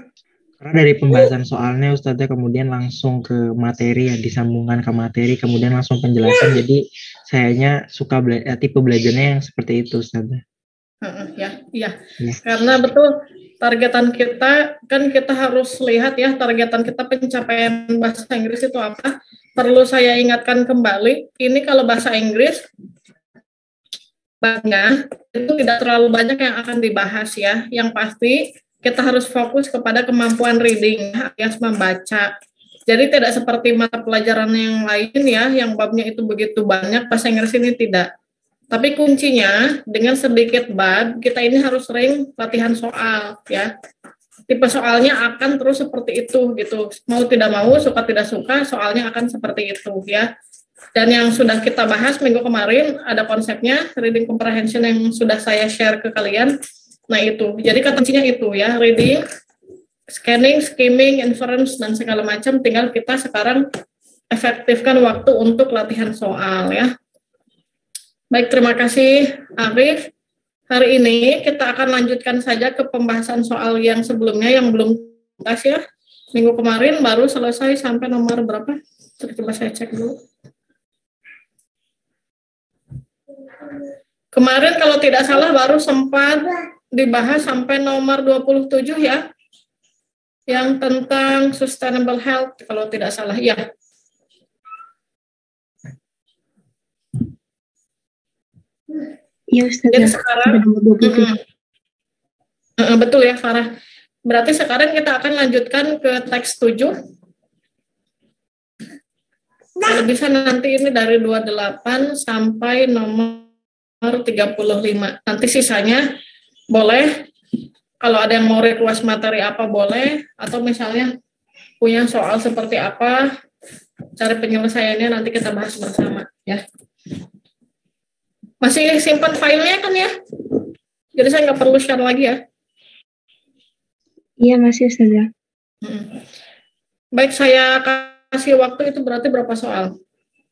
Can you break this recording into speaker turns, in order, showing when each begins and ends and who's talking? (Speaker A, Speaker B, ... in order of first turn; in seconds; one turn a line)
Speaker A: 0.6-10.4
Speaker B: 11.0-22.6
Speaker B: 24.4-32.3
Speaker B: 32.9-38.1
Speaker B: 38.7-43.7
Speaker B: 44.5-50.3
Speaker B: 51.0-56.5
Speaker B: 57.1-59.2
Speaker B: 60.1-63.6
Speaker B: 64.3-66.9
Speaker B: 68.3-70.1
Speaker B: 70.7-75.8
Speaker B: 76.3-80.2
Speaker B: 84.3-89.2
Speaker B: 90.5-93.6
Speaker C: 99.5-101.3
Speaker B: 99.9-101.3
Speaker B: 102.8-103.7
Speaker B: 104.3-106.9
Speaker B: 109.8-113.5
Speaker B: 114.0-116.0
Speaker B: 116.7-117.1
Speaker B: 118.0-121.1
Speaker B: 121.8-123.3
Speaker B: 124.2-126.6
Speaker B: 128.6-130.1
Speaker B: 131.2-132.4
Speaker C: 134.4-135.3
Speaker B: 135.8-136.1
Speaker B: 137.2-139.9